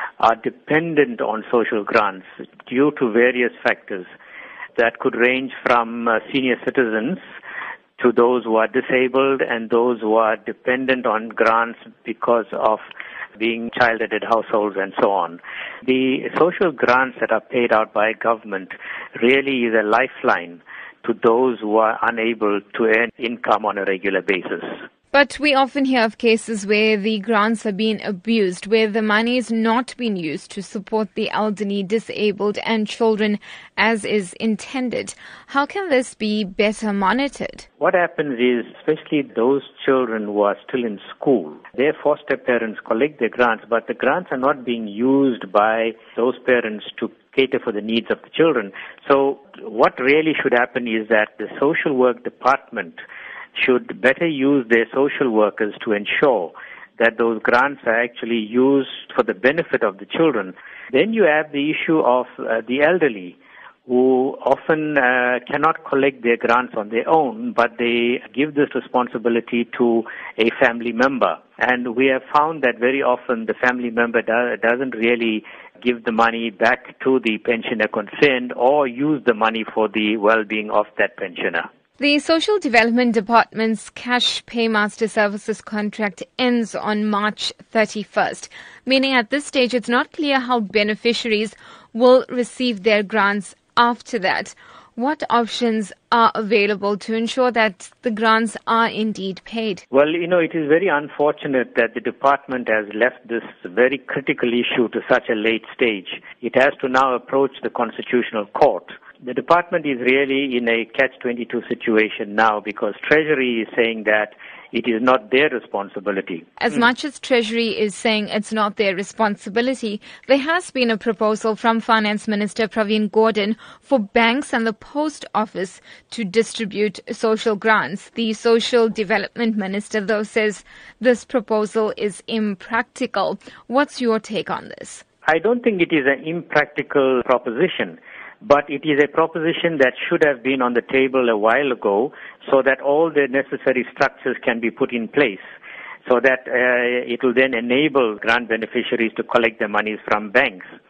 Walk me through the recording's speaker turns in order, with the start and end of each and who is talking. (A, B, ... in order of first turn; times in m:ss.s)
0:00.2-0:04.1 A
0:04.8-0:07.2 A
0:08.0-0:12.8 A
0:13.4-0:24.8 A
0:25.1-0:37.7 B
0:37.8-0:53.0 A
0:53.6-1:21.7 A
1:22.0-1:39.8 B
1:39.9-1:56.5 A
1:56.6-2:15.0 B
2:15.3-2:25.4 A
2:26.1-2:30.6 A